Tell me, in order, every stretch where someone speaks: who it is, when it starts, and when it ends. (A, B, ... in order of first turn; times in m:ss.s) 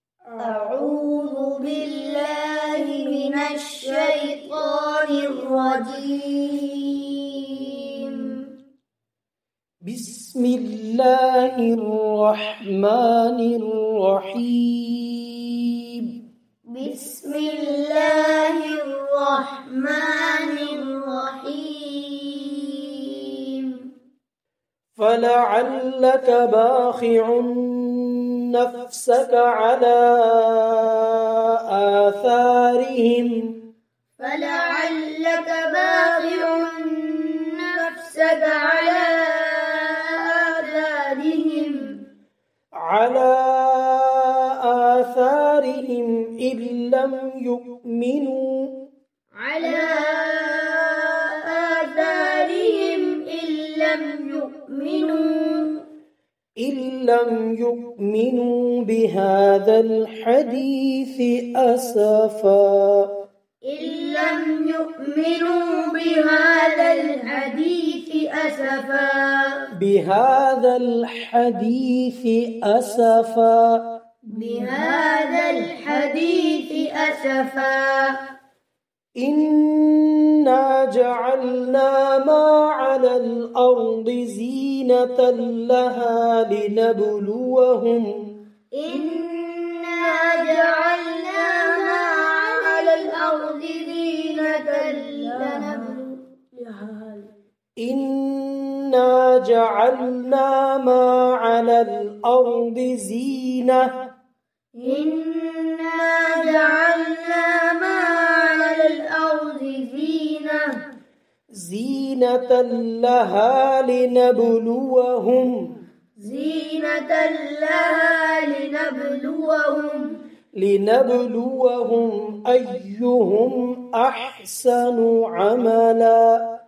0:00.4-0:08.5 A
0:09.8-0:16.2 B
0:16.7-0:23.8 A
0:25.0-0:33.5 B
0:34.2-0:41.8 A
0:42.8-0:48.7 B
0:49.4-0:55.8 A
0:56.6-1:03.1 B
1:03.7-1:09.7 A
1:09.8-1:13.8 B
1:14.3-1:18.2 A
1:19.2-1:28.3 B
1:28.8-1:37.2 A
1:37.8-1:43.9 B
1:44.8-1:50.8 A
1:51.6-1:55.7 B
1:56.2-2:00.2 A
2:00.6-2:06.4 B